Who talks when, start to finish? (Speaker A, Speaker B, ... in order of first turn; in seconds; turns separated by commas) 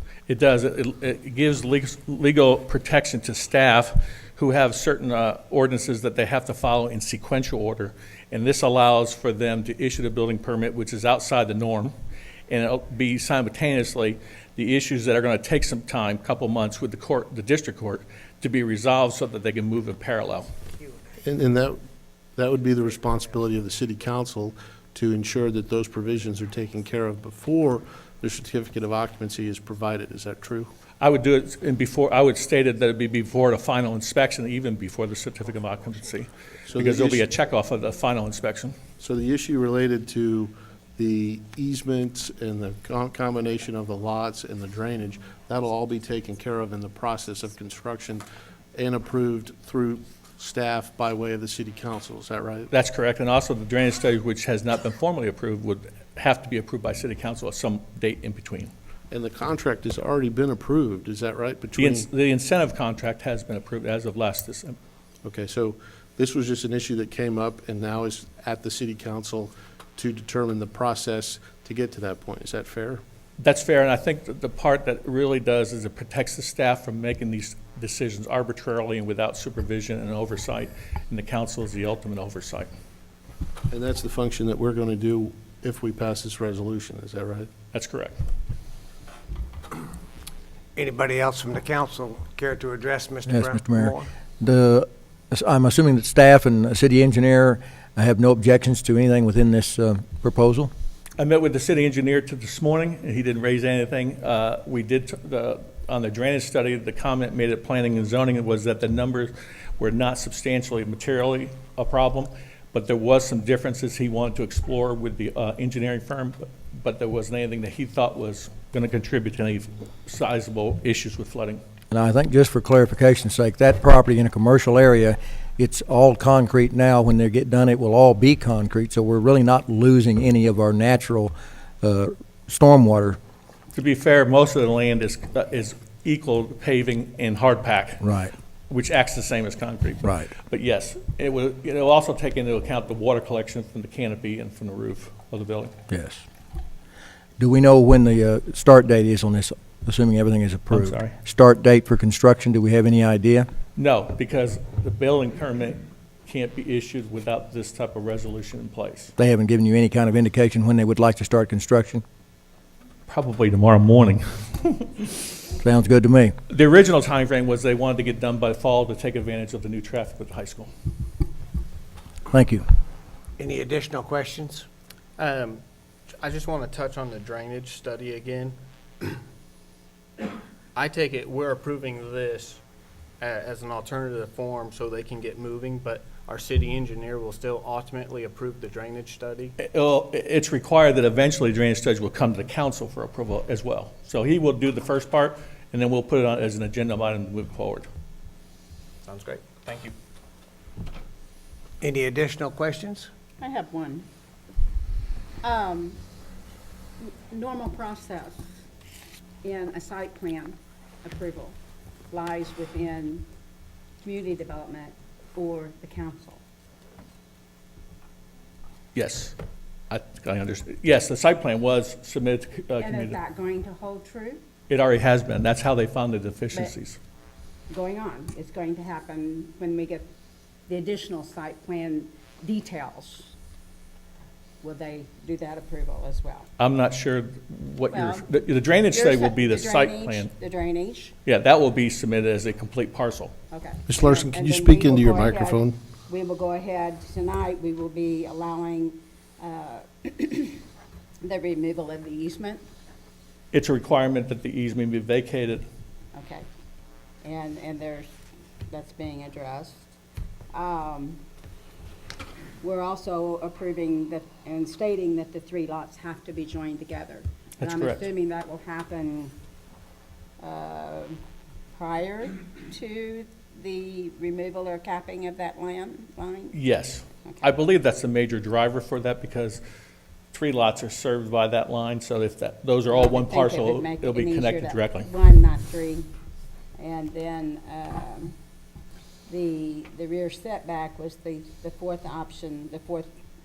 Speaker A: 0.3-11.9, Speaker A: 12.5-20.5, Speaker B: 21.2-21.8, Speaker B: 22.4-30.7, Speaker A: 31.0-38.8, Speaker B: 36.7-37.2, Speaker B: 39.0-48.2, Speaker B: 48.7-52.7, Speaker A: 52.7-58.7, Speaker B: 59.1-62.1, Speaker A: 61.8-64.8, Speaker B: 65.2-73.0, Speaker A: 73.4-82.7, Speaker B: 83.7-87.5, Speaker A: 87.7-88.2, Speaker C: 90.8-94.0, Speaker D: 93.3-100.7, Speaker A: 101.2-121.6, Speaker D: 121.9-133.2, Speaker A: 133.7-138.0, Speaker D: 138.0-138.3, Speaker A: 138.7-145.7, Speaker D: 140.0-140.3, Speaker D: 145.9-146.2, Speaker D: 147.4-153.5, Speaker A: 150.7-151.1, Speaker A: 153.8-159.1, Speaker D: 159.2-162.0, Speaker A: 163.1-165.2, Speaker D: 165.6-166.3, Speaker A: 166.5-170.7, Speaker D: 172.3-172.6, Speaker C: 173.4-174.7, Speaker E: 175.2-175.6, Speaker E: 176.2-179.2, Speaker E: 180.7-182.6, Speaker E: 183.2-189.5, Speaker A: 189.6-197.9, Speaker E: 199.1-199.9, Speaker C: 201.8-203.1, Speaker F: 203.4-204.1, Speaker F: 205.4-206.0, Speaker F: 207.0-208.4, Speaker F: 209.4-211.6, Speaker F: 212.1-213.2, Speaker F: 214.0-216.4, Speaker A: 218.9-219.3, Speaker A: 219.9-223.2, Speaker F: 222.8-224.4, Speaker A: 224.7-227.0, Speaker F: 227.7-230.1, Speaker F: 230.7-233.3, Speaker F: 234.6-236.5, Speaker A: 236.6-240.3, Speaker F: 237.9-238.3, Speaker F: 238.9-241.1, Speaker A: 241.2-243.3, Speaker F: 243.5-250.6, Speaker B: 243.9-245.8, Speaker F: 251.2-252.6, Speaker A: 253.5-255.6, Speaker F: 256.1-256.4, Speaker F: 257.2-258.1, Speaker F: 258.7-259.9, Speaker F: 260.5-261.2, Speaker F: 262.6-269.3, Speaker A: 267.6-268.0, Speaker F: 270.4-271.2, Speaker F: 271.7-276.6, Speaker A: 276.5-279.6, Speaker A: 280.3-285.1, Speaker F: 282.9-286.1, Speaker F: 286.8-288.3, Speaker F: 289.3-293.1